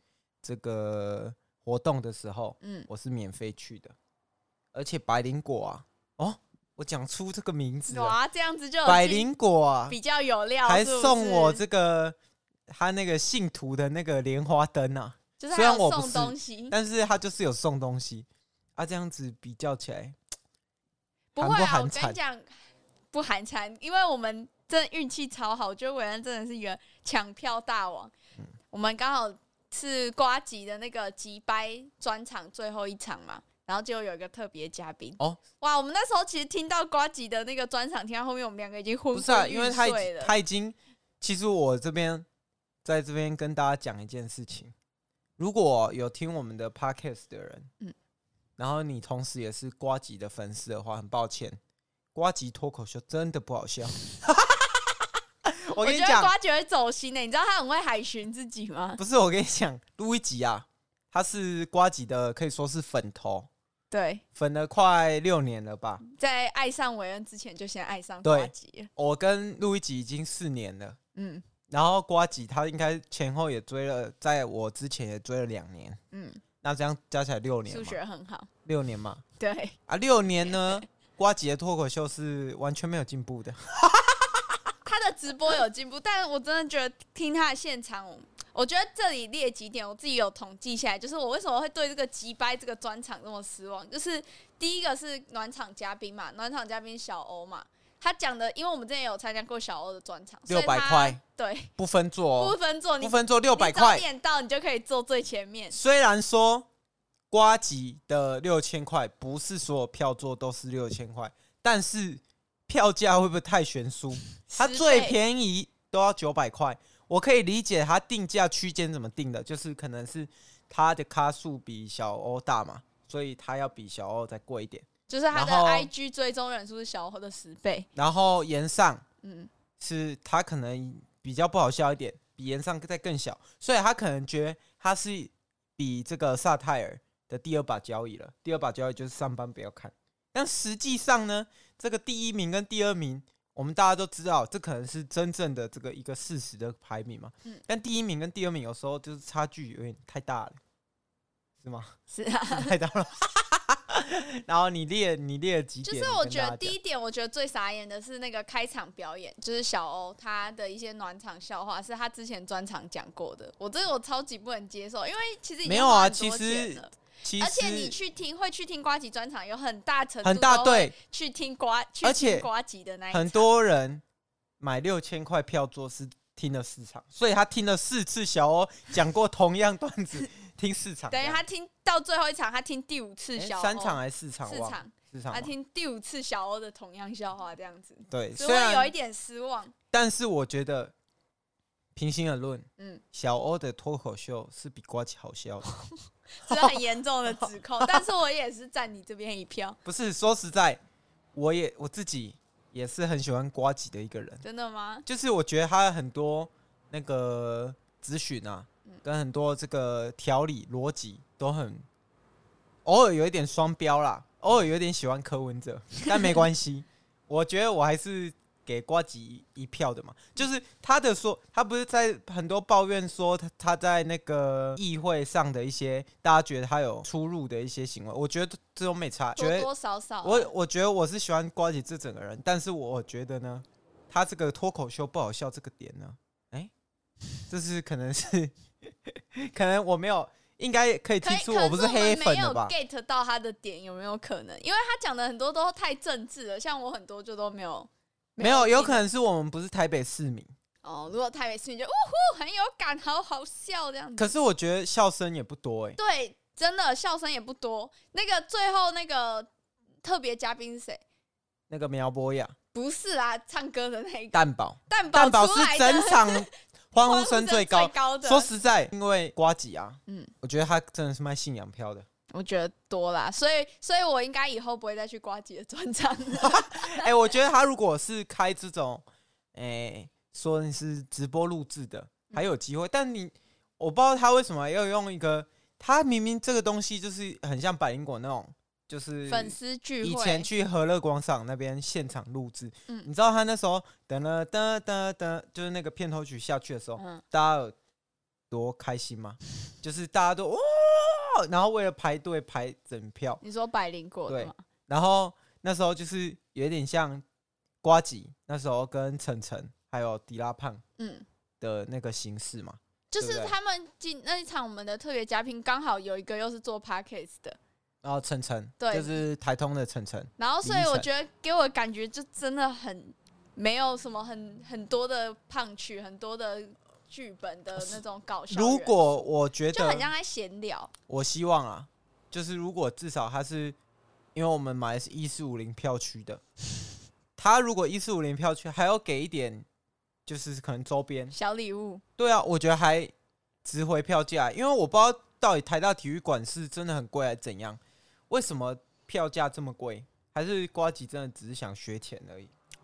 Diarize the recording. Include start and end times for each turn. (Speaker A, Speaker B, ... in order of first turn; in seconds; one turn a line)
Speaker A: 0.4-3.9
Speaker B: 2.6-2.9
Speaker A: 4.7-8.2
Speaker B: 7.9-9.3
Speaker A: 8.8-10.0
Speaker B: 9.9-11.6
Speaker A: 10.7-12.1
Speaker A: 12.7-20.2
Speaker B: 15.4-16.8
Speaker B: 21.3-22.5
Speaker A: 21.4-22.2
Speaker B: 23.1-28.1
Speaker B: 28.7-40.3
Speaker A: 39.1-42.2
Speaker A: 42.8-44.7
Speaker A: 45.4-47.7
Speaker A: 48.6-51.6
Speaker A: 52.1-56.3
Speaker B: 55.8-59.0
Speaker A: 59.0-63.5
Speaker B: 63.9-64.2
Speaker A: 64.3-66.0
Speaker B: 66.0-68.9
Speaker A: 68.2-71.0
Speaker B: 71.1-71.4
Speaker A: 71.7-76.0
Speaker B: 76.1-76.4
Speaker A: 76.6-78.0
Speaker B: 77.7-78.5
Speaker A: 78.6-79.2
Speaker B: 79.4-79.8
Speaker A: 79.9-84.6
Speaker B: 84.8-101.7
Speaker A: 100.5-101.2
Speaker A: 101.8-104.0
Speaker B: 102.4-105.8
Speaker A: 105.7-106.7
Speaker A: 107.3-125.9
Speaker B: 114.5-115.1
Speaker B: 125.1-127.9
Speaker A: 128.0-129.0
Speaker B: 129.2-129.5
Speaker A: 129.8-150.6
Speaker A: 151.6-151.9
Speaker B: 152.1-152.7
Speaker A: 152.5-156.8
Speaker B: 155.8-173.5
Speaker A: 165.6-167.9
Speaker A: 170.2-170.9
Speaker A: 172.0-172.5
Speaker A: 173.1-174.0
Speaker A: 174.6-181.4
Speaker B: 181.1-189.7
Speaker A: 183.3-185.5
Speaker A: 188.1-188.9
Speaker A: 189.9-190.9
Speaker A: 191.9-195.7
Speaker B: 196.4-199.8
Speaker A: 196.5-196.8
Speaker A: 197.3-198.0
Speaker A: 199.8-200.8
Speaker A: 201.3-204.4
Speaker B: 204.4-205.0
Speaker A: 205.1-211.8
Speaker A: 212.8-229.7
Speaker B: 229.3-230.5
Speaker A: 230.2-236.7
Speaker A: 237.5-242.7
Speaker B: 241.2-249.0
Speaker A: 248.4-250.5
Speaker B: 250.8-254.3
Speaker A: 254.2-256.0
Speaker B: 256.0-259.5
Speaker B: 260.0-261.0
Speaker A: 261.7-262.5
Speaker B: 262.7-268.5
Speaker A: 264.3-272.1
Speaker B: 272.3-277.1
Speaker A: 276.3-297.7
Speaker B: 289.3-290.5
Speaker B: 297.0-297.2
Speaker A: 298.5-303.4
Speaker B: 303.4-304.6
Speaker A: 304.3-307.2
Speaker A: 307.8-310.8
Speaker B: 311.0-311.2
Speaker A: 311.6-313.5
Speaker B: 313.1-317.6
Speaker A: 318.0-321.1
Speaker B: 318.8-319.2
Speaker B: 320.4-329.1
Speaker A: 327.8-330.1
Speaker B: 329.7-330.9
Speaker A: 331.1-333.8
Speaker A: 334.3-336.4
Speaker A: 337.4-339.6
Speaker A: 340.2-341.3
Speaker B: 341.3-342.0
Speaker A: 342.2-343.1
Speaker A: 343.6-352.5